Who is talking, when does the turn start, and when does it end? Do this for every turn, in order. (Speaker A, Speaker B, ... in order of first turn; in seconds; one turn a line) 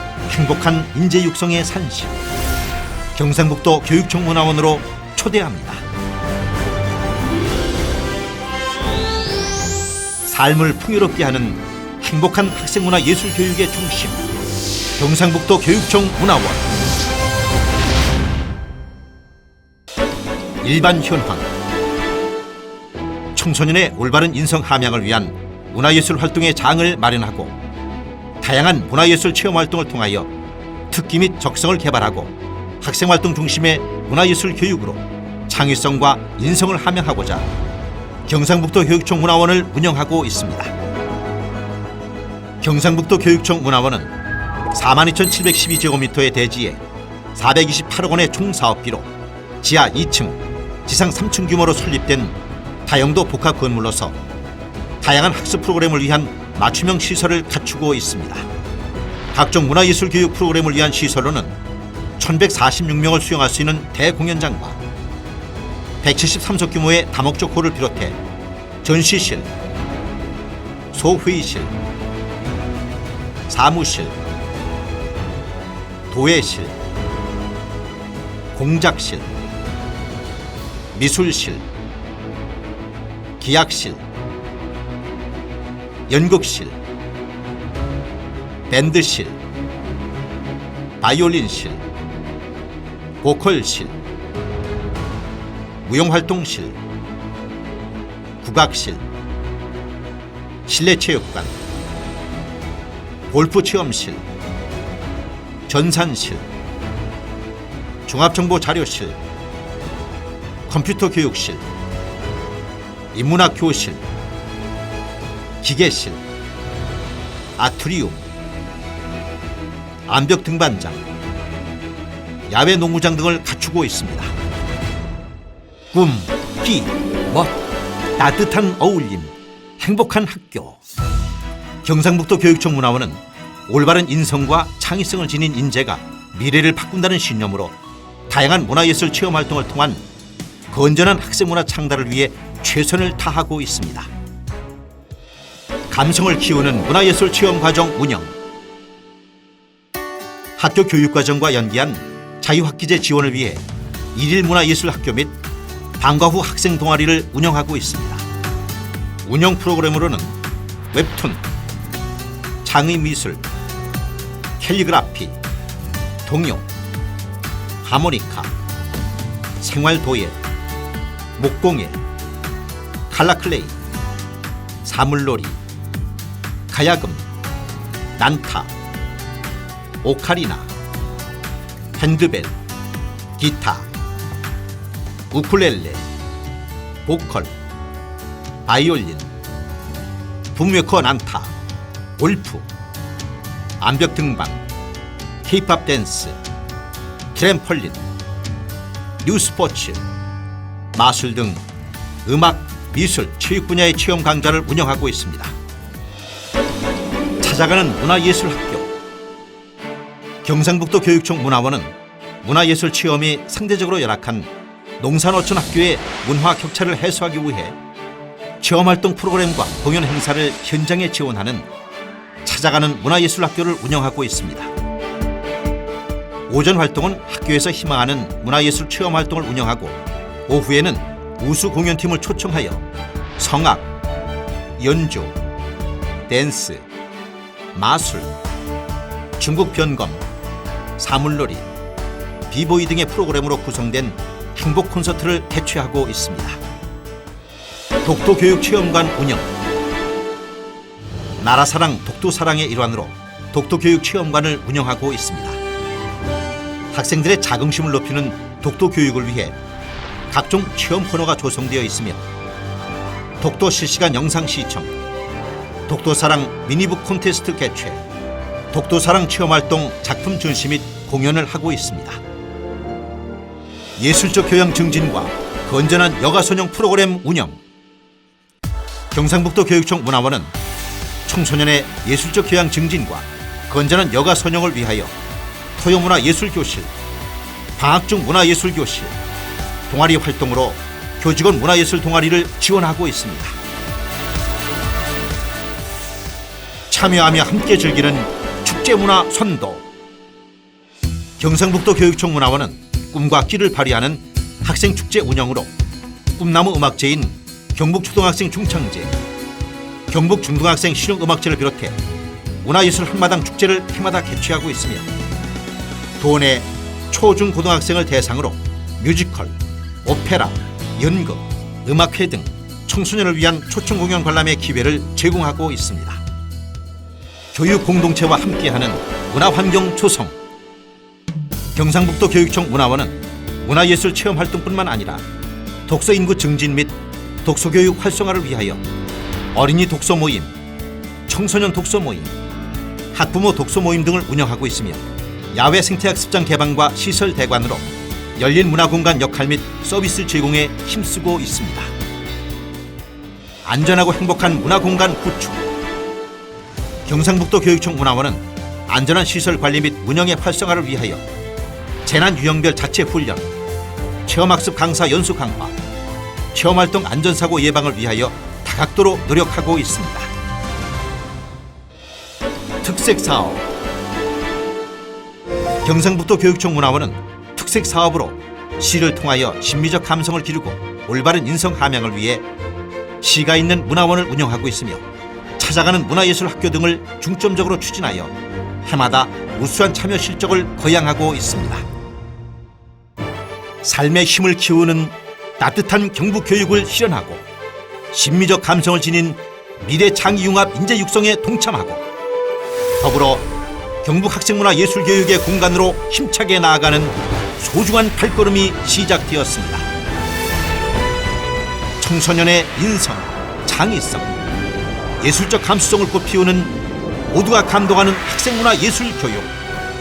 Speaker A: 0.3-2.2
Speaker A: 3.1-5.8
Speaker A: 10.2-14.3
Speaker A: 15.0-16.7
Speaker A: 20.6-21.5
Speaker A: 23.4-27.6
Speaker A: 28.4-30.3
Speaker A: 30.9-37.5
Speaker A: 38.3-40.7
Speaker A: 42.6-44.1
Speaker A: 44.7-46.8
Speaker A: 47.3-54.2
Speaker A: 55.0-58.5
Speaker A: 59.3-61.6
Speaker A: 62.2-64.8
Speaker A: 66.0-68.2
Speaker A: 68.8-69.5
Speaker A: 70.9-71.7
Speaker A: 73.5-74.2
Speaker A: 76.1-76.8
Speaker A: 78.5-79.3
Speaker A: 80.9-81.7
Speaker A: 83.4-84.0
Speaker A: 86.1-86.8
Speaker A: 88.7-89.4
Speaker A: 91.0-91.8
Speaker A: 93.2-94.0
Speaker A: 95.8-96.8
Speaker A: 98.4-99.0
Speaker A: 100.7-101.6
Speaker A: 103.3-104.2
Speaker A: 105.7-106.5
Speaker A: 108.1-109.2
Speaker A: 110.7-111.6
Speaker A: 113.1-114.0
Speaker A: 115.6-116.2
Speaker A: 117.6-118.2
Speaker A: 120.1-121.0
Speaker A: 122.5-124.3
Speaker A: 125.9-127.6
Speaker A: 128.2-130.8
Speaker A: 131.8-137.8
Speaker A: 138.3-140.0
Speaker A: 140.7-144.1
Speaker A: 145.9-148.4
Speaker A: 150.6-155.3
Speaker A: 156.0-158.2
Speaker A: 159.2-160.4
Speaker A: 160.9-161.4
Speaker A: 162.6-163.4
Speaker A: 164.6-165.4
Speaker A: 166.3-166.7
Speaker A: 167.8-168.5
Speaker A: 169.6-170.4
Speaker A: 171.4-172.0
Speaker A: 173.1-173.8
Speaker A: 174.8-175.6
Speaker A: 176.7-177.3
Speaker A: 178.2-178.7
Speaker A: 180.0-180.7
Speaker A: 182.0-182.5
Speaker A: 183.4-183.9
Speaker A: 185.3-186.1
Speaker A: 187.1-187.5
Speaker A: 188.7-189.3
Speaker A: 190.5-191.5
Speaker A: 192.2-192.7
Speaker A: 193.8-194.6
Speaker A: 195.4-196.4
Speaker A: 197.3-198.0
Speaker A: 199.2-200.0
Speaker A: 200.9-201.6
Speaker A: 202.2-205.6
Speaker A: 207.4-208.9
Speaker A: 210.4-217.8
Speaker A: 218.6-221.7
Speaker A: 222.4-224.7
Speaker A: 226.5-232.9
Speaker A: 233.4-233.9
Speaker A: 234.8-235.4
Speaker A: 236.3-236.9
Speaker A: 237.7-238.3
Speaker A: 239.4-240.2
Speaker A: 241.0-241.7
Speaker A: 242.5-246.6
Speaker A: 248.0-249.5
Speaker A: 251.4-255.6
Speaker A: 256.9-259.6
Speaker A: 260.3-262.2
Speaker A: 263.4-264.9
Speaker A: 265.9-268.0
Speaker A: 268.7-272.2
Speaker A: 274.0-277.6
Speaker A: 279.1-280.5
Speaker A: 281.2-285.1
Speaker A: 285.8-286.9
Speaker A: 287.8-289.2
Speaker A: 289.9-293.6
Speaker A: 296.9-299.9
Speaker A: 301.4-305.7
Speaker A: 306.4-309.2
Speaker A: 310.1-312.0
Speaker A: 312.6-315.1
Speaker A: 316.2-326.2
Speaker A: 327.5-330.4
Speaker A: 331.8-335.2
Speaker A: 335.9-338.8
Speaker A: 339.5-340.5
Speaker A: 341.3-342.3
Speaker A: 343.1-351.9
Speaker A: 353.6-355.6
Speaker A: 357.1-361.3
Speaker A: 362.1-363.5
Speaker A: 364.2-365.8
Speaker A: 366.5-370.3
Speaker A: 372.8-373.7
Speaker A: 375.8-382.5
Speaker A: 383.2-385.1
Speaker A: 385.6-391.9
Speaker A: 393.8-397.5
Speaker A: 398.1-402.0
Speaker A: 403.0-403.5
Speaker A: 404.0-409.9
Speaker A: 412.0-414.3
Speaker A: 415.2-416.8
Speaker A: 417.3-419.5